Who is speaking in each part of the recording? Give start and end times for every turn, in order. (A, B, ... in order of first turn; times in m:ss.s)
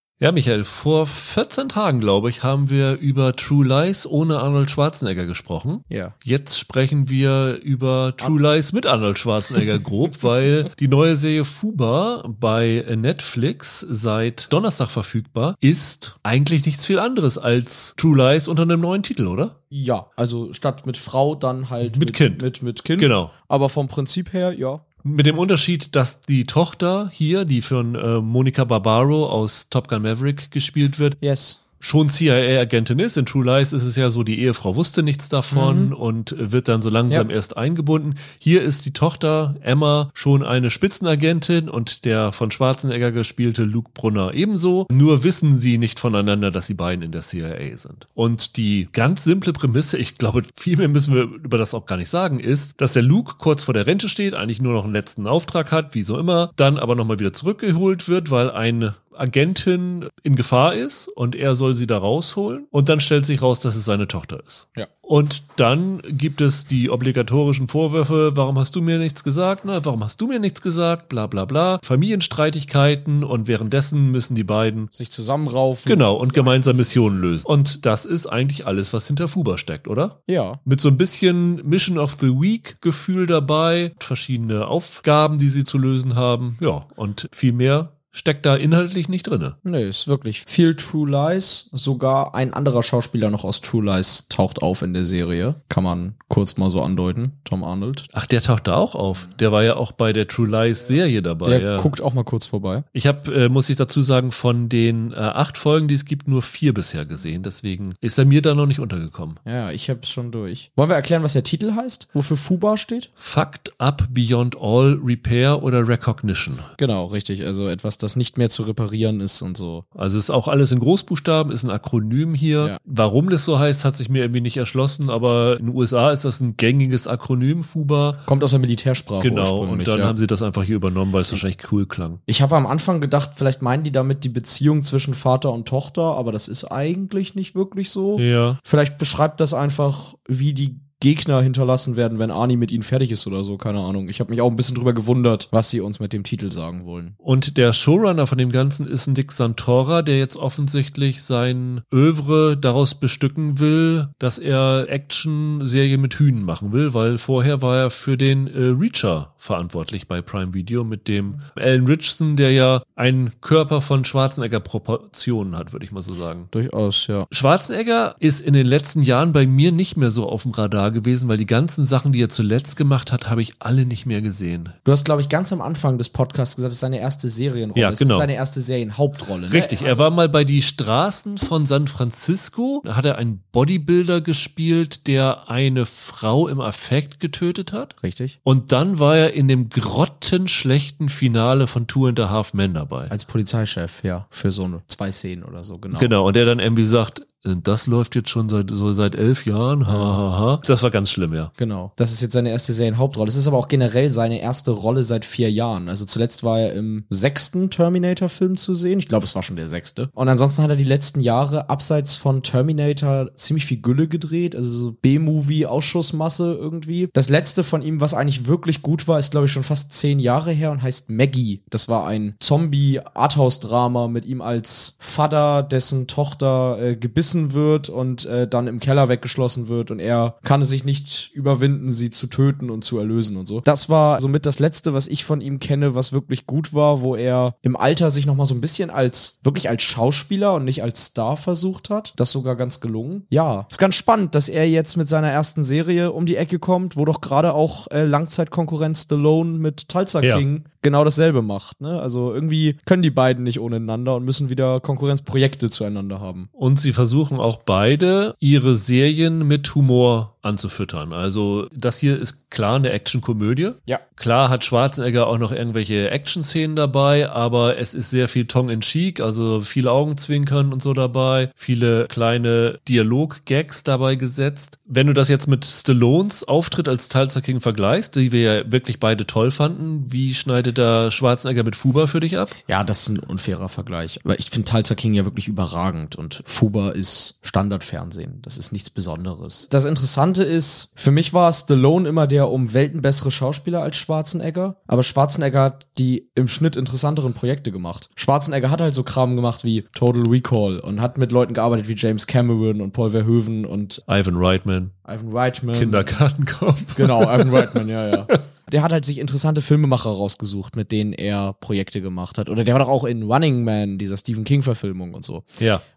0:00.2-0:19.6 A
0:19.7-0:24.8 B
0:21.8-0:22.4 A
0:23.0-0:23.3 A
0:25.0-0:31.2 A
0:31.2-0:31.6 B
0:31.8-1:14.9 A
0:35.5-0:35.9 B
1:14.9-1:16.8 B
1:15.9-1:29.6 A
1:20.3-1:20.6 B
1:29.6-1:38.1 B
1:38.1-1:41.9 A
1:41.4-1:42.8 B
1:42.9-1:49.4 A
1:49.5-1:53.1 B
1:53.2-1:56.7 A
1:56.8-1:59.8 B
2:00.0-2:08.2 A
2:08.3-2:10.2 B
2:09.2-2:12.2 A
2:12.3-2:27.2 B
2:18.2-2:18.6 A
2:27.2-2:46.5 A
2:46.5-2:47.3 B
2:47.3-2:54.8 A
2:54.8-3:00.0 B
2:57.8-2:58.3 A
2:59.5-3:13.1 A
3:08.0-3:08.4 B
3:13.1-3:16.1 B
3:15.9-3:21.5 A
3:19.9-3:20.2 B
3:21.6-4:16.5 B
4:16.6-4:42.6 A
4:42.7-5:04.0 B
5:04.1-5:04.9 A
5:05.0-5:06.1 B
5:05.7-5:07.8 A
5:07.0-5:15.5 B